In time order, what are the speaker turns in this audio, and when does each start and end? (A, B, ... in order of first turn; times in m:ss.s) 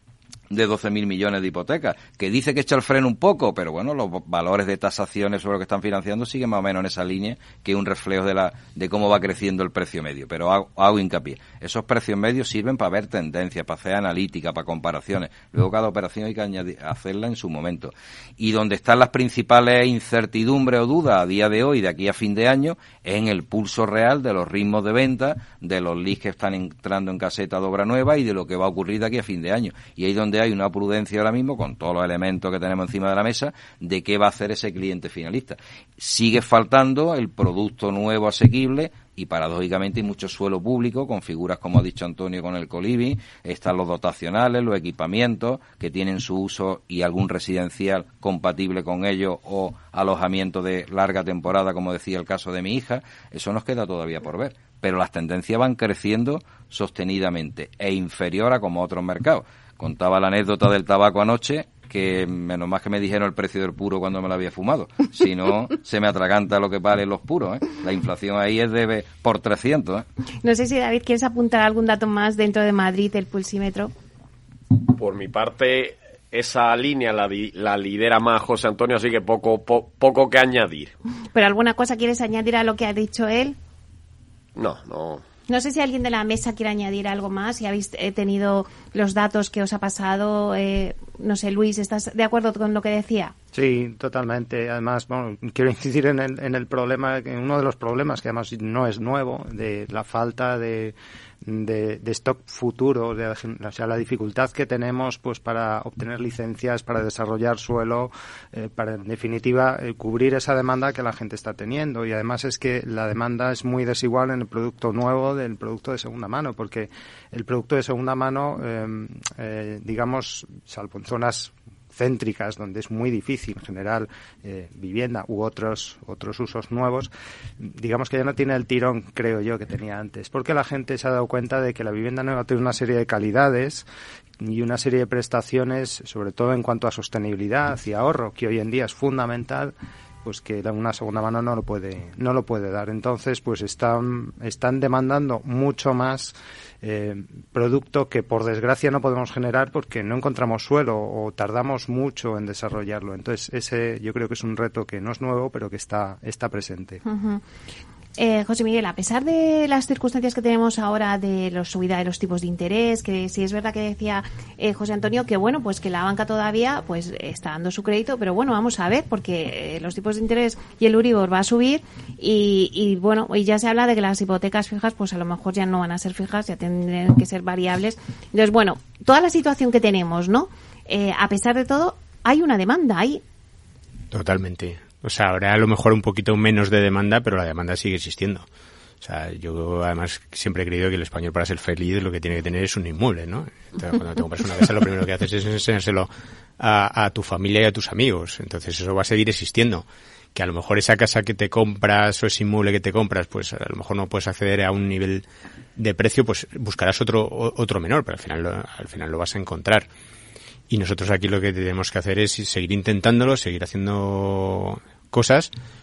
0:00.5-1:10.0 A
1:10.4-1:13.9 B
1:14.9-1:20.9 C
1:21.3-1:23.5 B
1:24.6-1:25.2 C
1:25.5-1:33.3 B
1:33.5-2:13.8 D
2:14.4-2:37.0 D
2:37.0-2:37.4 B
2:38.2-3:03.2 B
3:04.1-3:08.5 E
3:09.0-3:25.2 E
3:25.8-3:29.9 E
3:30.7-3:35.5 E